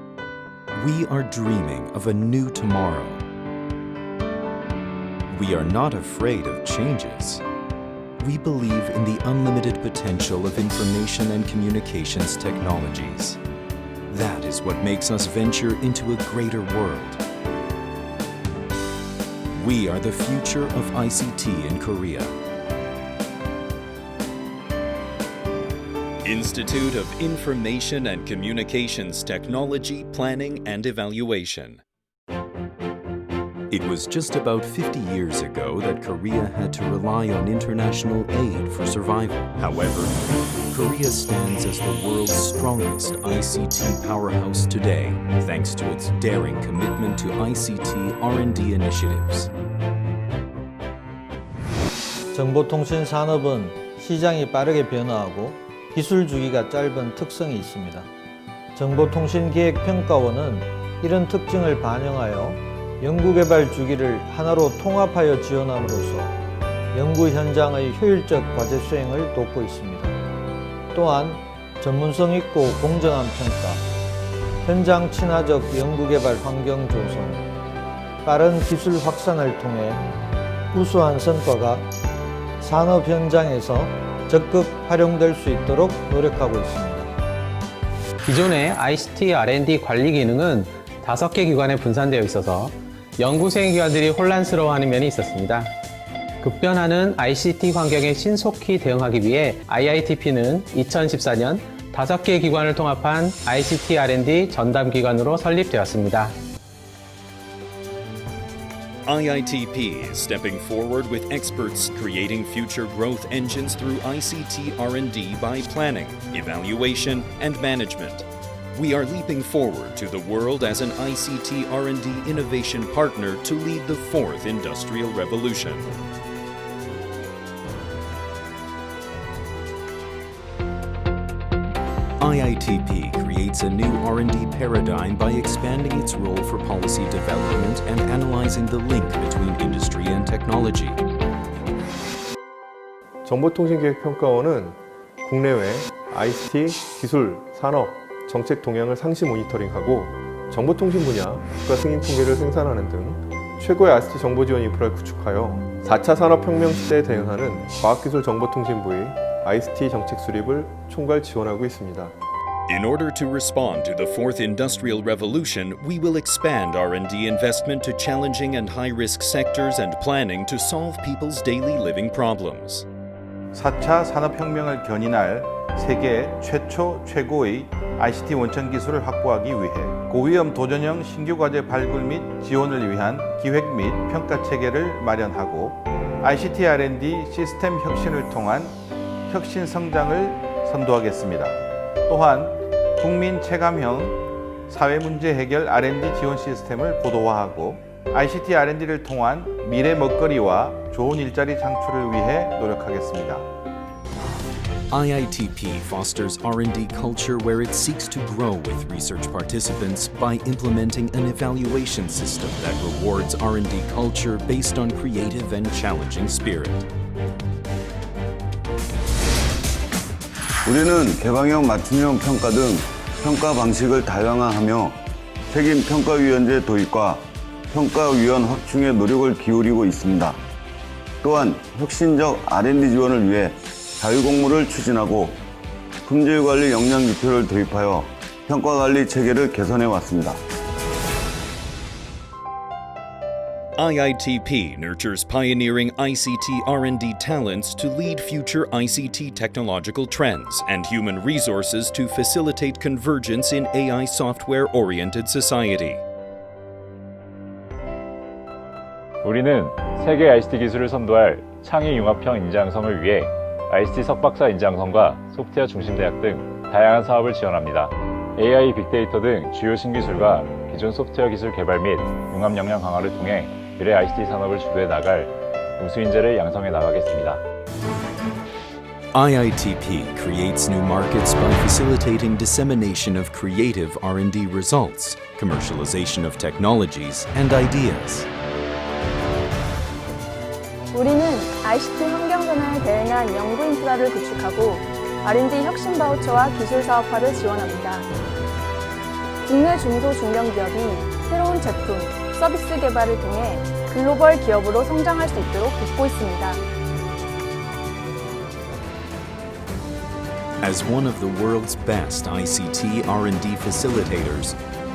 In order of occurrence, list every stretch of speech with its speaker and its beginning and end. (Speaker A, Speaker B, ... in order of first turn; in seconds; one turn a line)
Speaker A: 0.7-3.2
Speaker A: 5.3-7.4
Speaker A: 8.2-13.4
Speaker A: 14.1-17.2
Speaker A: 19.6-22.3
Speaker A: 26.2-31.8
Speaker A: 33.7-40.1
Speaker A: 40.7-49.5
Speaker B: 52.3-58.1
Speaker B: 58.7-66.3
Speaker B: 66.9-70.2
Speaker B: 70.9-73.8
Speaker B: 74.6-77.5
Speaker B: 78.2-80.0
Speaker B: 80.7-81.8
Speaker B: 82.6-87.1
Speaker C: 88.2-95.7
Speaker C: 96.4-106.4
Speaker A: 109.0-125.9
Speaker A: 132.2-141.0
Speaker D: 143.2-162.1
Speaker A: 162.7-172.8
Speaker E: 173.5-188.8
Speaker E: 189.3-203.4
Speaker A: 204.9-216.9
Speaker F: 220.6-225.0
Speaker F: 225.5-230.4
Speaker F: 231.2-235.4
Speaker F: 236.0-240.4
Speaker A: 243.8-256.0
Speaker G: 259.2-277.4
Speaker A: 279.1-288.3
Speaker H: 290.9-298.1
Speaker H: 299.4-306.6
Speaker A: 310.6-314.6